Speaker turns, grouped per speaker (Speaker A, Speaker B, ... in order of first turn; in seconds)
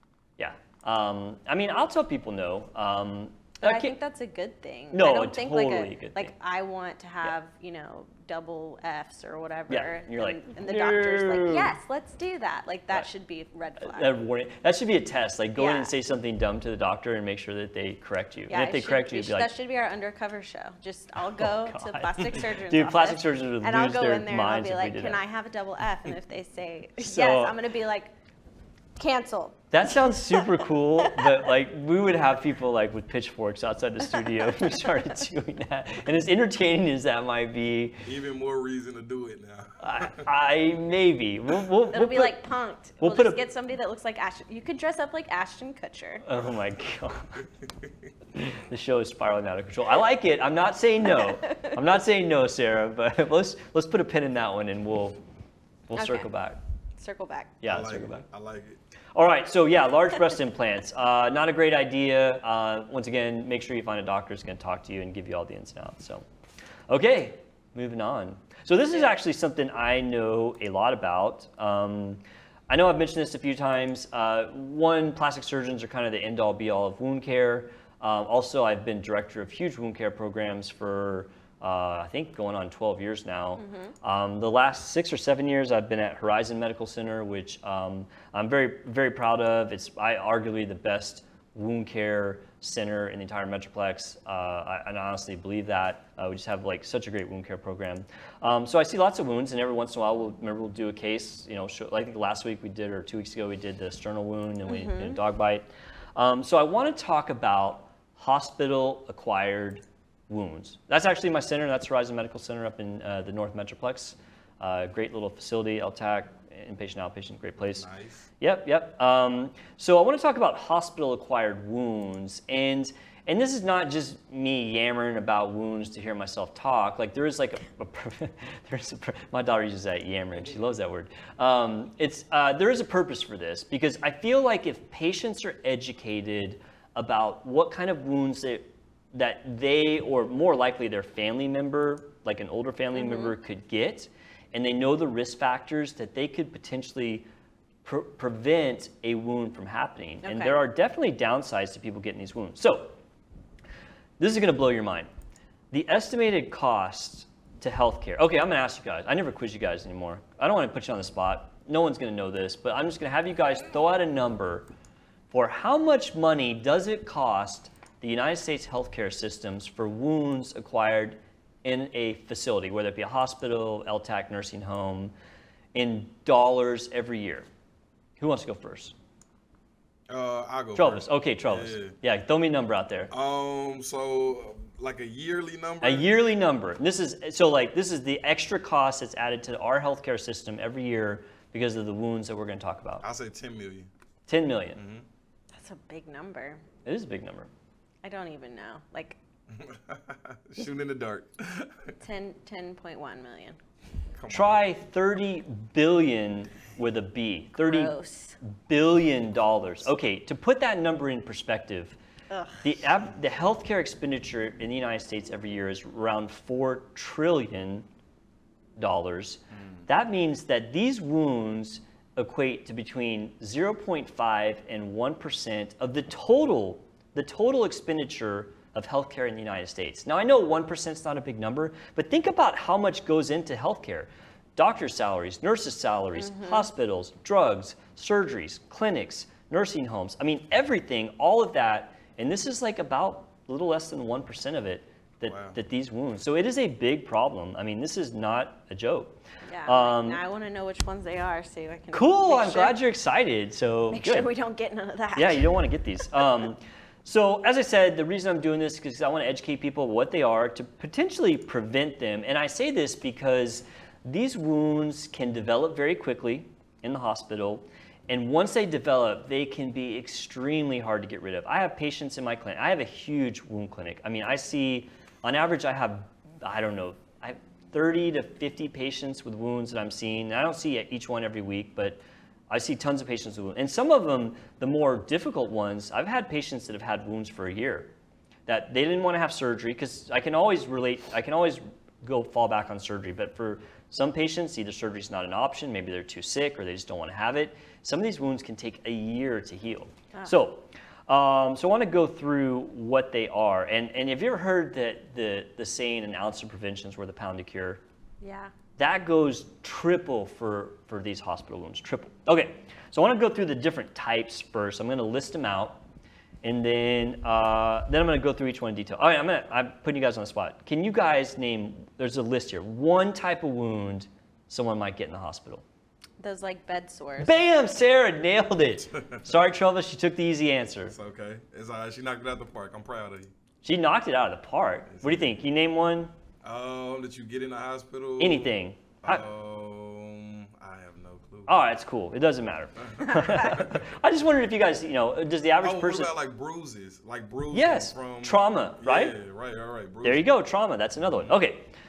Speaker A: 0.4-4.0, 4.9-6.3, 9.7-11.7, 13.8-19.5, 21.4-25.2, 27.0-27.6, 29.7-38.0, 39.8-42.4, 43.0-43.4, 46.2-47.4, 48.4-55.2, 55.9-56.6, 57.6-58.2, 59.1-66.2, 66.9-117.9, 118.4-147.3, 147.8-152.9, 154.2-155.1, 155.7-164.7, 165.3-175.1, 175.7-177.5, 178.2-178.9, 180.8-183.1, 185.8-193.0, 194.3-194.8, 196.8-197.5, 204.3-212.0, 212.6-217.9, 218.8-250.2, 251.9-254.3, 255.2-287.9, 288.5-307.8, 308.8-315.8, 316.4-325.6, 327.2-331.0, 333.6-336.1, 338.2-339.2, 341.5-346.1, 347.5-349.2, 350.0-351.7
Speaker B: 3.6-14.2, 15.6-15.9, 18.5-28.1, 29.0-30.5, 31.0-31.4, 34.6-34.9, 41.9-46.2, 56.0-56.3, 57.0-57.5, 83.6-83.9, 104.7-105.2, 143.0-143.3, 150.2-150.6, 195.5-196.6, 198.0-199.2, 202.0-203.6, 207.6-208.4, 212.3-212.7, 236.2-236.7, 249.5-252.8, 253.9-255.6, 308.2-308.5, 326.2-327.4, 343.1-343.5
Speaker C: 38.0-40.2, 47.6-47.9, 57.7-58.8, 117.8-118.3, 180.1-181.9, 183.1-186.1, 193.0-193.9, 194.8-195.1, 199.5-201.9, 204.2-204.6, 245.3-245.6, 330.9-333.3, 334.9-335.2, 336.4-341.5, 342.9-343.8, 345.6-350.3